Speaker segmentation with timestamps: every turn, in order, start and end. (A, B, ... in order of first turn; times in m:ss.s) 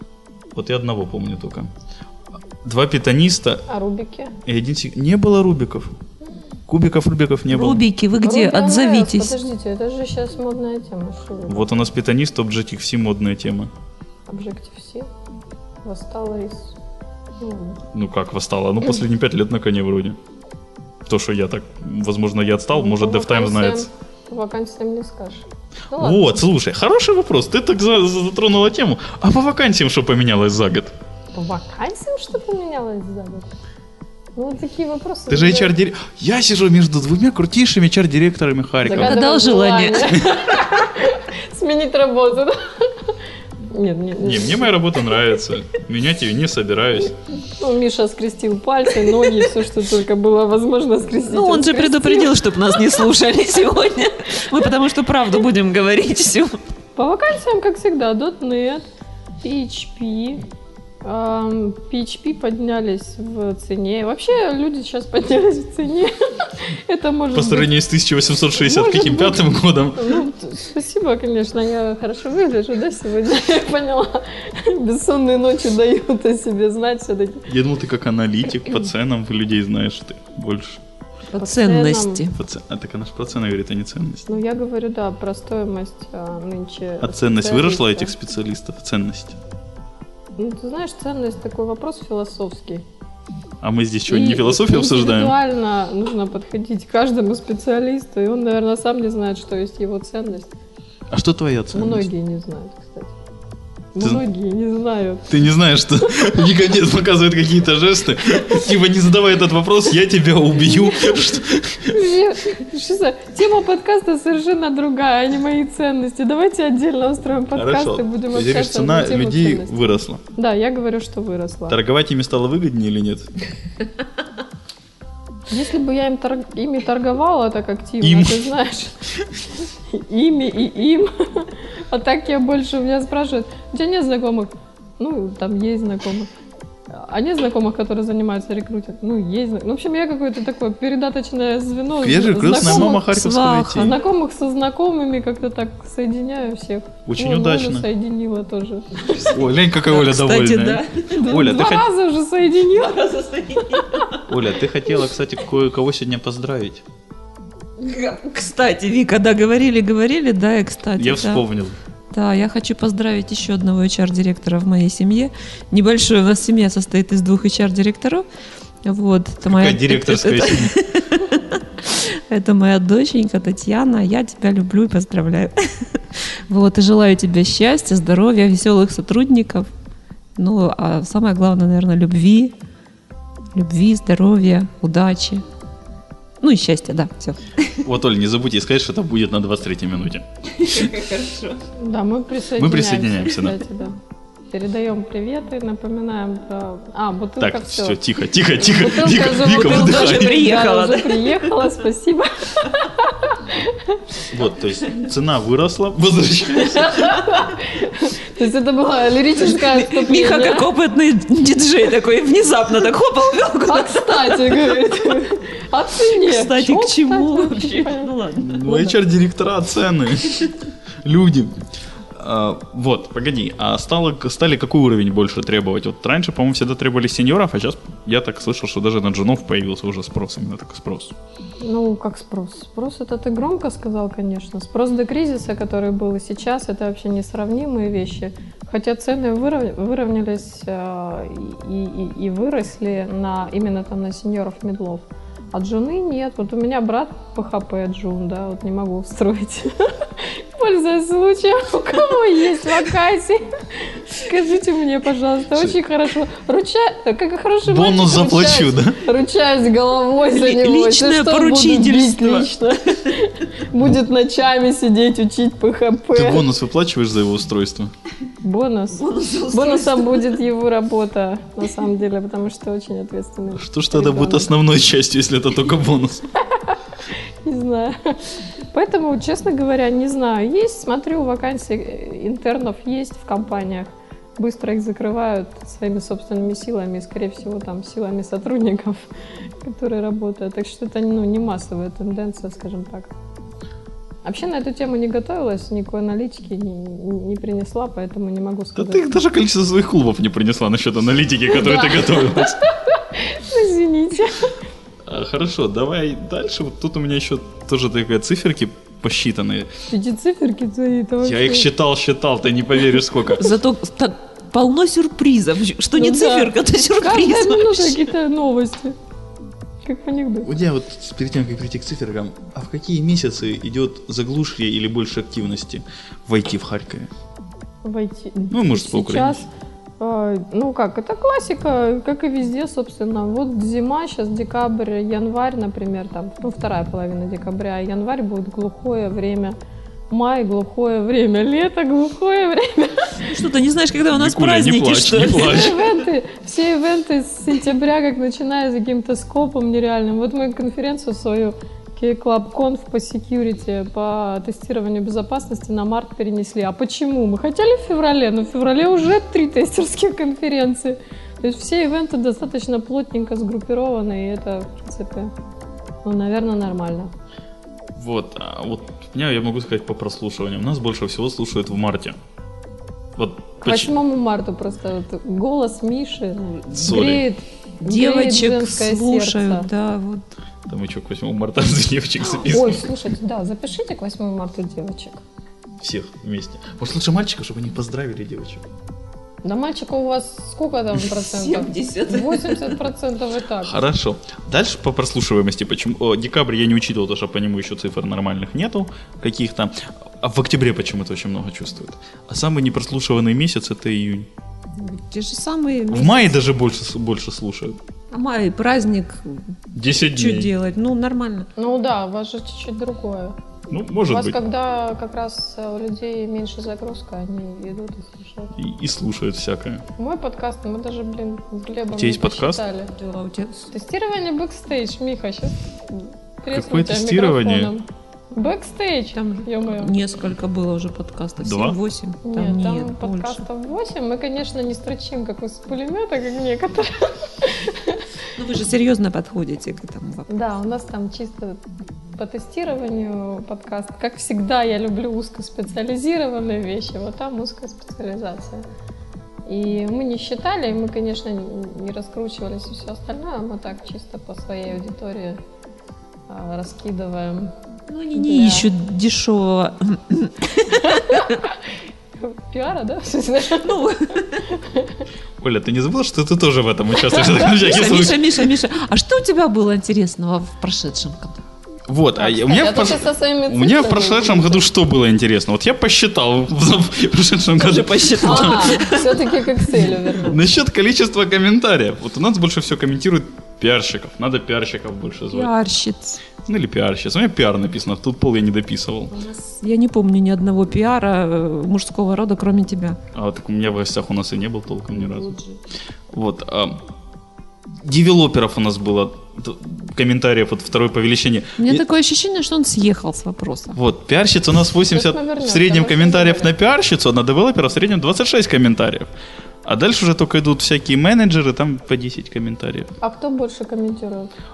0:00.5-0:01.7 A
0:02.6-0:03.6 A
0:03.7-0:04.4 B
0:04.4-0:06.0 A
0:06.7-0:07.8 A
0:07.5-0:09.3 C
0:08.2-0:11.7 B
0:11.5-0:13.7 A
0:14.3-0:15.1 B
0:15.8-0:16.7 B
0:17.4-0:17.8 B
0:17.9-0:20.2 A
0:21.0-0:23.9 A
0:22.7-0:26.3 B
0:26.0-0:30.9 A
0:31.3-0:33.5 B
0:34.4-0:35.7 B
0:35.3-0:39.2 A
0:38.8-0:43.1 B
0:38.9-0:40.2 C
0:43.7-0:44.8 B
0:44.2-0:47.2 A
0:47.6-0:52.5 B
0:51.3-0:56.6 C
0:57.0-0:58.8 B
0:59.4-1:00.4 B
1:01.0-1:07.7 B
1:07.3-1:10.2 A
1:08.6-1:17.5 B
1:17.5-1:20.8 A
1:21.3-1:22.3 C
1:21.4-1:22.2 B
1:22.3-1:24.3 A
1:24.3-1:28.1 B
1:27.0-1:29.4 A
1:30.4-1:32.8 B
1:33.6-1:35.4 A
1:34.1-1:40.5 B
1:41.1-1:42.1 A
1:41.7-1:43.1 B
1:43.9-1:45.3 B
1:45.3-1:51.9 A
1:46.1-1:46.4 B
1:51.8-2:01.8 B
1:57.5-2:00.2 A
2:01.7-2:03.3 A
2:05.5-2:09.0 B
2:08.0-2:08.5 A
2:09.9-2:16.3 B
2:16.9-2:23.1 B
2:22.0-2:24.0 A
2:22.5-2:24.0 C
2:23.7-2:29.1 B
2:27.0-2:27.9 A
2:29.0-2:31.4 C
2:29.2-2:31.9 A
2:31.1-2:33.1 B
2:32.8-2:34.3 C
2:33.6-2:34.0 B
2:34.3-2:36.8 A
2:37.8-2:41.4 C
2:41.0-2:41.8 A
2:42.1-2:48.2 C
2:48.8-2:59.7 C
2:49.5-2:50.8 A
3:00.4-3:02.5 C
3:03.5-3:05.4 C
3:06.4-3:07.8 C
3:07.8-3:10.9 A
3:10.6-3:11.6 C
3:11.8-3:14.0 B
3:12.6-3:13.6 A
3:14.5-3:24.2 B
3:17.4-3:20.4 A
3:19.3-3:21.7 C
3:24.3-3:27.1 A
3:26.6-3:30.7 B
3:29.5-3:34.7 C
3:33.7-3:38.1 B
3:36.0-3:38.8 C
3:38.4-3:41.6 A
3:42.1-3:51.1 A
3:51.6-4:26.5 B
4:17.6-4:19.0 A
4:20.3-4:23.2 C
4:26.1-4:27.9 A
4:28.4-4:34.5 B
4:28.9-4:30.3 C
4:33.6-4:36.3 A
4:36.7-4:38.2 B
4:38.7-4:49.0 B
4:49.6-4:53.1 B
4:54.2-4:59.1 B
4:58.8-5:02.6 A
5:01.5-5:04.6 B
5:05.0-5:09.7 A
5:09.9-5:11.7 B
5:11.2-5:13.5 A
5:13.4-5:18.1 C
5:16.0-5:19.0 B
5:19.8-5:20.5 B
5:20.4-5:27.1 A
5:27.8-5:29.5 B
5:28.5-5:29.4 A
5:30.0-5:39.6 B
5:40.1-5:43.3 B
5:43.2-5:45.8 C
5:44.1-5:45.8 A
5:45.3-6:05.3 B
6:06.0-6:07.1 B
6:08.0-6:12.2 A
6:13.2-6:13.9 A
6:13.6-6:19.7 B
6:16.7-6:17.2 A
6:17.8-6:20.2 C
6:20.7-6:22.9 A
6:22.4-6:25.2 B
6:25.8-6:28.7 A
6:29.4-6:33.8 B
6:31.1-6:32.8 C
6:33.6-6:44.3 A
6:44.8-6:46.4 C
6:45.9-6:47.8 A
6:48.1-6:49.4 C
6:49.7-6:50.5 A
6:49.9-6:51.5 C
6:51.6-6:53.4 B
6:53.7-6:54.4 A
6:54.1-6:58.5 B
6:58.6-6:59.8 A
7:00.0-7:02.9 B
7:01.9-7:02.6 A
7:02.9-7:03.7 C
7:03.7-7:09.9 B
7:06.5-7:07.7 A
7:09.7-7:13.4 C
7:11.4-7:11.8 A
7:12.2-7:18.0 B
7:18.4-7:20.3 C
7:20.3-7:21.6 B
7:22.2-7:28.6 B
7:29.5-7:35.4 B
7:36.3-7:37.5 B
7:37.9-7:41.4 C
7:38.1-7:38.7 B
7:40.8-7:41.4 B
7:42.2-7:43.8 B
7:43.6-7:44.5 C
7:44.5-7:45.0 B
7:45.4-7:48.5 A
7:47.1-7:51.4 C
7:51.9-7:58.8 A
7:52.2-7:54.6 B
7:57.6-7:59.8 C
7:58.2-8:00.4 B
7:59.7-8:05.5 A
8:05.3-8:06.2 C
8:06.4-8:09.1 A
8:09.1-8:13.0 C
8:13.1-8:15.4 A
8:15.1-8:15.4 C
8:16.1-8:16.8 A
8:17.8-8:21.8 A
8:21.6-8:23.8 C
8:23.7-8:29.1 A
8:24.9-8:26.5 B
8:29.6-8:32.9 A
8:33.0-8:34.3 B